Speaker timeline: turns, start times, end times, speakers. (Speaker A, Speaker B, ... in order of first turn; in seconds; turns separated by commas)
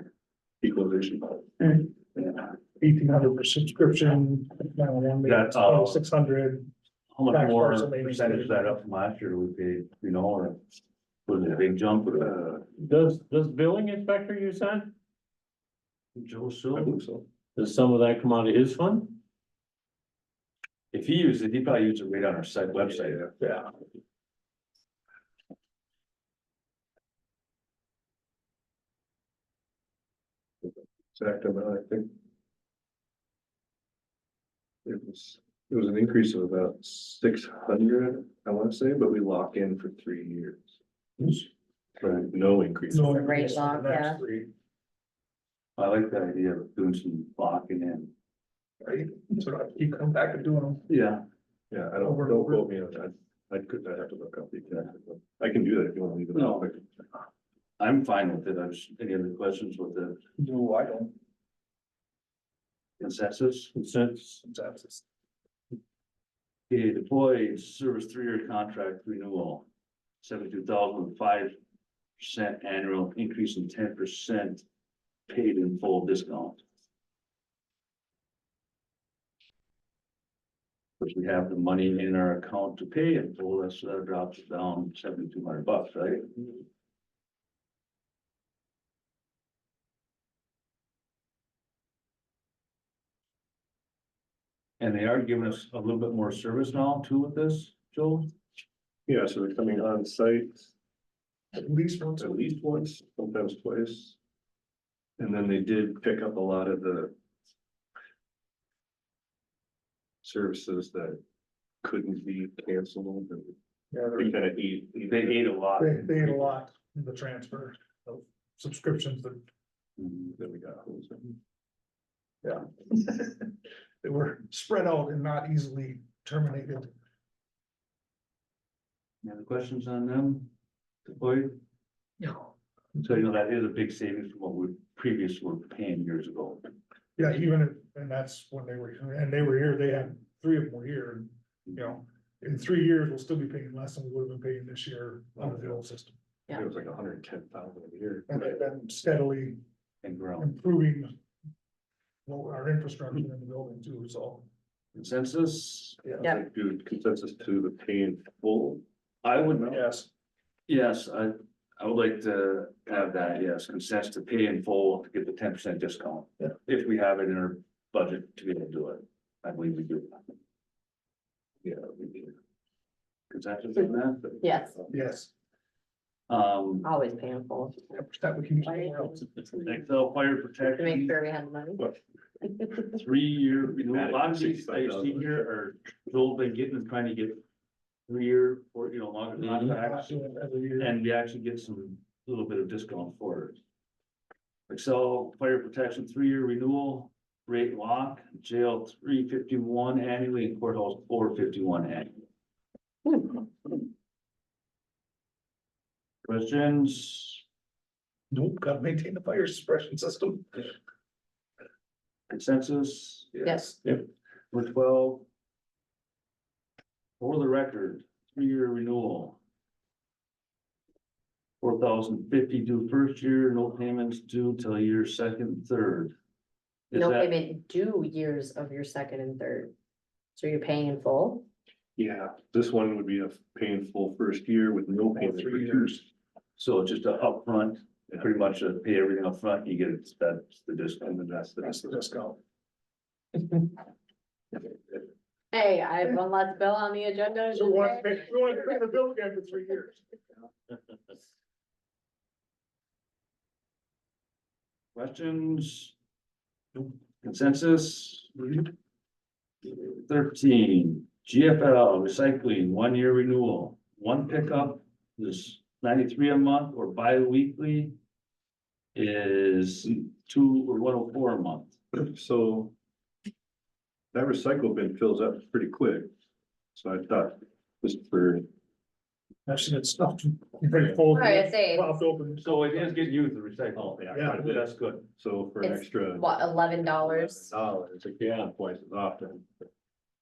Speaker A: 0.6-1.5, Speaker B: 1.6-1.9, Speaker B: 2.8-6.7, Speaker C: 5.2-6.0, Speaker C: 7.1-10.6, Speaker B: 7.2-8.8, Speaker C: 11.2-12.3, Speaker A: 12.1-12.6, Speaker D: 12.8-14.9, Speaker C: 16.1-17.0, Speaker A: 16.7-17.3, Speaker D: 17.6-19.2, Speaker C: 20.9-23.2, Speaker A: 22.9-23.3, Speaker A: 31.1-32.1, Speaker A: 34.8-40.8, Speaker C: 42.0-42.3, Speaker A: 42.0-43.1, Speaker B: 42.9-44.5, Speaker E: 43.0-44.2, Speaker C: 45.8-48.1, Speaker B: 48.8-50.8, Speaker C: 50.9-51.2, Speaker A: 51.7-56.9, Speaker B: 52.0-52.7, Speaker C: 56.3-56.7, Speaker C: 57.8-60.2, Speaker B: 60.4-61.1, Speaker C: 63.0-63.7, Speaker D: 63.7-64.4, Speaker B: 64.4-65.0, Speaker C: 66.7-69.7, Speaker C: 70.2-71.6, Speaker C: 72.2-74.6, Speaker C: 75.3-76.6, Speaker C: 81.0-86.6, Speaker C: 94.8-98.3, Speaker A: 99.1-100.7, Speaker B: 101.5-102.4, Speaker A: 102.2-104.2, Speaker A: 105.2-107.1, Speaker A: 110.2-111.2, Speaker A: 111.8-113.5, Speaker B: 113.9-114.4, Speaker A: 114.2-115.5, Speaker C: 115.1-116.6, Speaker B: 115.8-119.4, Speaker C: 120.0-120.3, Speaker A: 120.3-121.3, Speaker B: 122.4-123.5, Speaker B: 124.0-126.9, Speaker C: 129.2-130.5, Speaker C: 131.1-131.6, Speaker C: 132.9-136.7, Speaker B: 137.2-146.1, Speaker A: 146.5-148.6, Speaker B: 148.3-149.6, Speaker C: 150.0-150.5, Speaker B: 150.4-151.1, Speaker B: 152.2-154.4, Speaker C: 154.9-156.0, Speaker A: 156.2-158.8, Speaker C: 159.2-159.8, Speaker B: 159.7-160.1, Speaker C: 160.7-170.2, Speaker A: 171.6-172.3, Speaker C: 173.3-174.3, Speaker E: 174.4-174.8, Speaker B: 174.9-175.3, Speaker C: 176.3-176.9, Speaker E: 176.8-177.9, Speaker B: 177.9-179.3, Speaker E: 178.6-179.6, Speaker C: 179.6-181.2, Speaker E: 180.7-181.8, Speaker C: 182.9-187.4, Speaker A: 183.8-185.4, Speaker C: 188.1-193.6, Speaker B: 189.8-190.9, Speaker C: 194.7-202.2, Speaker C: 206.2-207.4, Speaker B: 208.3-210.7, Speaker C: 212.3-213.3, Speaker B: 213.4-213.7, Speaker E: 213.4-213.7, Speaker C: 214.5-215.2, Speaker C: 217.2-219.4, Speaker C: 221.6-226.1, Speaker C: 226.9-227.3, Speaker E: 226.9-229.7, Speaker E: 230.3-231.4, Speaker A: 232.0-236.1, Speaker B: 235.1-236.0, Speaker C: 236.6-241.2, Speaker A: 241.0-242.0, Speaker B: 241.6-242.4, Speaker E: 245.5-248.7, Speaker B: 247.5-250.0, Speaker C: 254.9-255.9, Speaker C: 257.2-258.4, Speaker C: 259.6-267.9, Speaker C: 268.9-271.8, Speaker A: 271.9-272.7, Speaker A: 274.1-276.1, Speaker A: 276.7-278.5, Speaker B: 279.5-282.9, Speaker E: 281.1-281.9, Speaker C: 282.4-285.1, Speaker A: 283.8-289.5, Speaker B: 284.1-284.4, Speaker E: 285.6-287.5, Speaker D: 288.2-288.4